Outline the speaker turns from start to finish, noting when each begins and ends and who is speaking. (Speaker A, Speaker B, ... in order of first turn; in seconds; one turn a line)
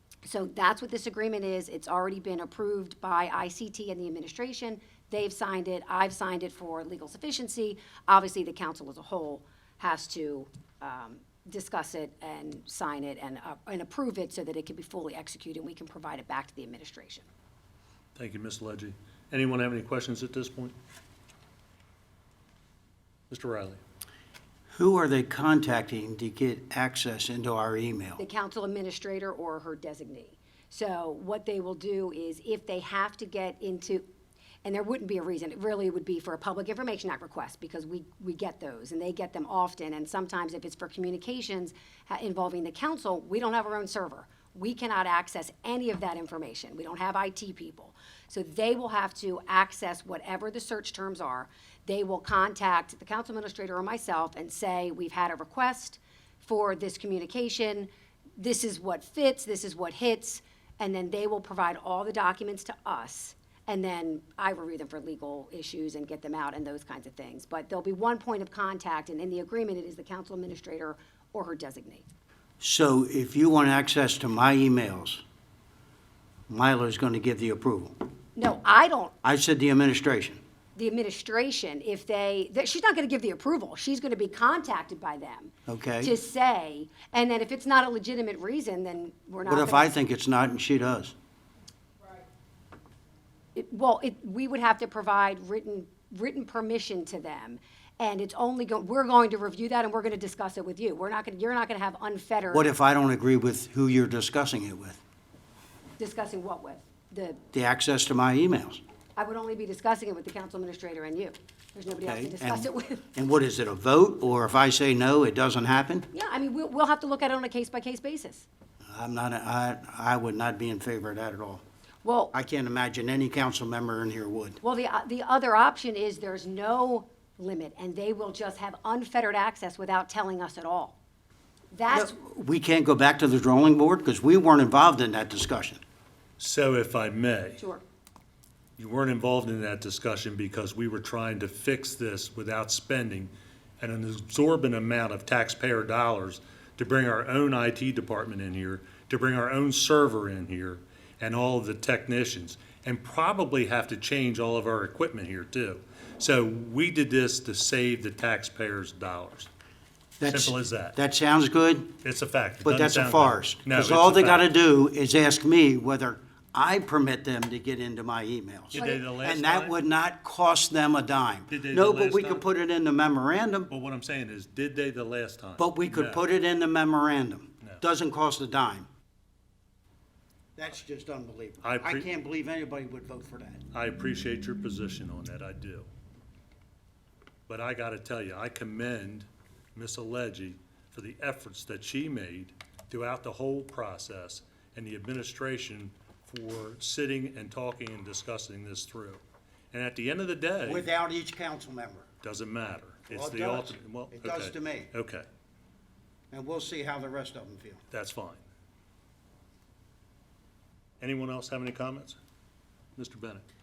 Speaker A: 0.2-17.3
Speaker B: 18.1-20.8
Speaker B: 23.3-23.8
Speaker C: 24.7-28.2
Speaker A: 28.2-34.0
Speaker A: 34.6-72.0
Speaker C: 72.6-75.2
Speaker C: 76.5-78.0
Speaker A: 78.3-79.1
Speaker C: 79.2-80.4
Speaker A: 80.8-89.9
Speaker C: 85.7-86.1
Speaker C: 89.4-91.1
Speaker A: 93.5-102.7
Speaker C: 102.5-105.0
Speaker A: 106.0-107.4
Speaker C: 107.5-108.8
Speaker A: 109.2-113.0
Speaker C: 112.0-116.1
Speaker A: 116.1-118.5
Speaker C: 118.9-121.6
Speaker A: 122.0-122.3
Speaker C: 122.3-124.6
Speaker A: 124.6-131.0
Speaker A: 131.7-132.1
Speaker C: 131.9-135.8
Speaker B: 136.4-137.6
Speaker A: 137.6-137.8
Speaker B: 138.8-159.5
Speaker C: 160.2-161.9
Speaker B: 160.2-160.9
Speaker B: 162.0-164.5
Speaker C: 162.6-173.7
Speaker B: 168.7-169.7
Speaker A: 168.7-169.0
Speaker B: 171.5-172.4
Speaker B: 173.7-176.2
Speaker C: 175.6-178.9
Speaker C: 180.6-183.6
Speaker B: 181.6-182.1
Speaker B: 183.7-185.9
Speaker B: 187.5-200.8
Speaker C: 200.6-202.1
Speaker B: 202.2-205.2
Speaker C: 203.1-204.9
Speaker C: 206.3-207.8
Speaker B: 207.9-208.4
Speaker B: 211.0-212.2
Speaker B: 212.9-213.4